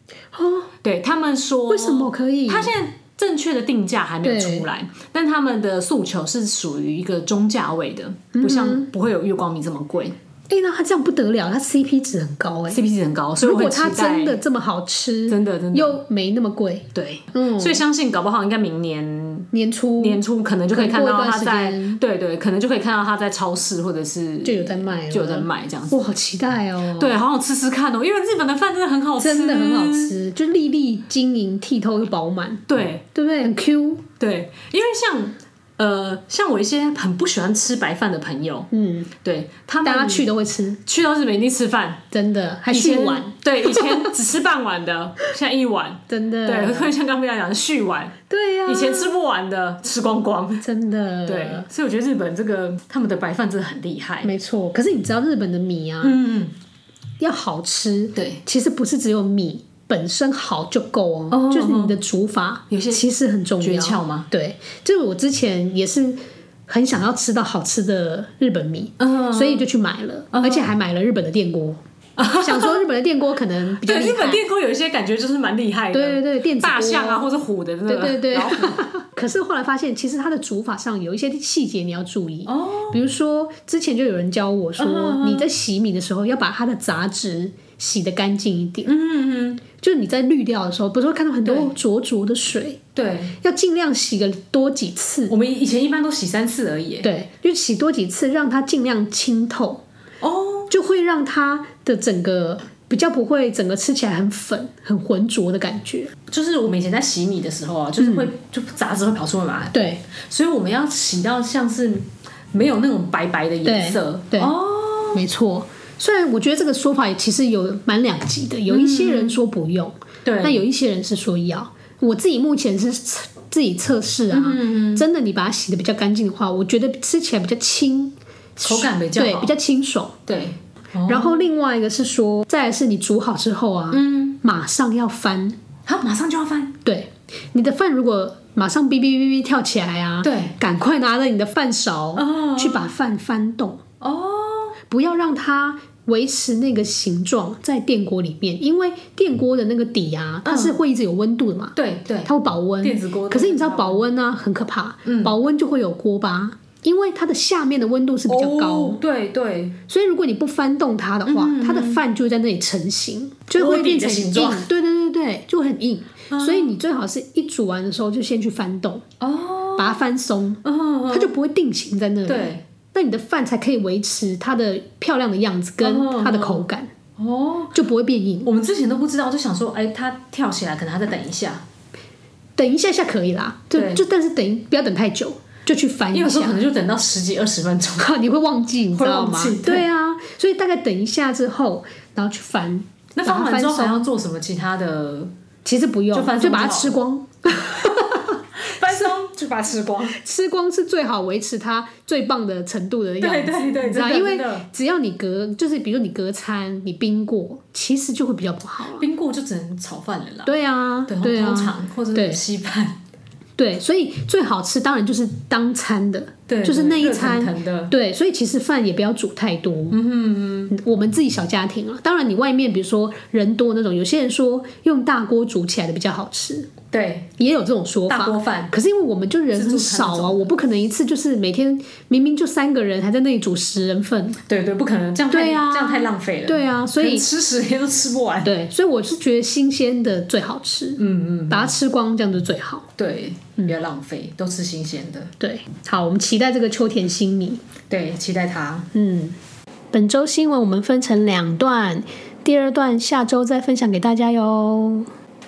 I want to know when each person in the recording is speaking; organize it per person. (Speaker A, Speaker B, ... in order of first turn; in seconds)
Speaker A: 0.3-0.7, 1.7-2.7, 4.2-4.7, 8.3-8.9, 10.5-12.8, 13.4-17.8, 19.5-20.2, 20.7-22.0, 24.4-27.1, 29.2-32.6, 33.1-34.0, 38.7-39.1, 39.8-40.8, 42.1-44.0, 46.1-46.9, 48.3-49.2, 50.6-51.7, 54.2-56.2, 57.2-71.8, 72.3-74.4, 75.9-77.3, 77.8-88.9, 89.7-92.8, 93.4-95.3, 97.0-99.8, 100.7-106.1, 108.0-108.3, 109.7-110.0, 113.6-114.5, 115.1-130.2, 131.1-135.6, 136.8-143.8, 144.9-159.0, 159.9-169.1, 169.8-176.9, 177.7-178.5, 182.6-186.6, 188.0-194.1, 195.6-199.1, 200.1-209.1, 210.4-212.4, 213.6-220.0, 220.7-226.7, 227.4-234.4, 235.3-237.2, 238.4-242.9, 245.4-247.6, 248.9-249.4, 249.9-255.1
Speaker B: 0.8-10.2, 12.7-14.4, 15.3-16.0, 16.9-26.1, 27.0-30.1, 32.7-33.0, 34.2-38.7, 39.2-40.3, 40.9-42.0, 42.7-50.6, 51.2-54.3, 56.0-56.5, 58.1-58.4, 61.3-62.0, 62.7-63.0, 63.6-64.3, 69.0-69.7, 70.3-70.7, 72.2-72.8, 73.8-78.8, 82.5-83.0, 84.8-85.5, 88.8-89.6, 91.4-91.7, 92.9-93.3, 95.3-97.1, 100.2-100.7, 106.3-115.2, 118.7-119.4, 120.2-120.6, 124.3-125.0, 128.6-129.5, 130.3-131.4, 133.9-134.4, 135.8-136.8, 140.2-140.6, 142.1-142.9, 144.0-144.8, 150.4-150.8, 151.8-154.0, 155.0-155.3, 158.3-159.8, 161.3-162.0, 163.5-164.7, 166.3-166.8, 169.2-170.0, 170.6-171.3, 172.2-172.6, 175.8-176.7, 177.2-177.8, 178.4-181.6, 183.7-184.0, 186.1-188.1, 188.9-189.8, 193.2-195.3, 196.1-197.0, 197.6-198.0, 198.6-200.2, 203.2-204.7, 209.0-210.5, 211.1-213.0, 216.5-217.9, 219.9-220.7, 226.9-227.3, 228.1-228.7, 229.5-230.5, 234.5-238.5, 241.0-241.7, 243.0-245.3, 247.9-248.9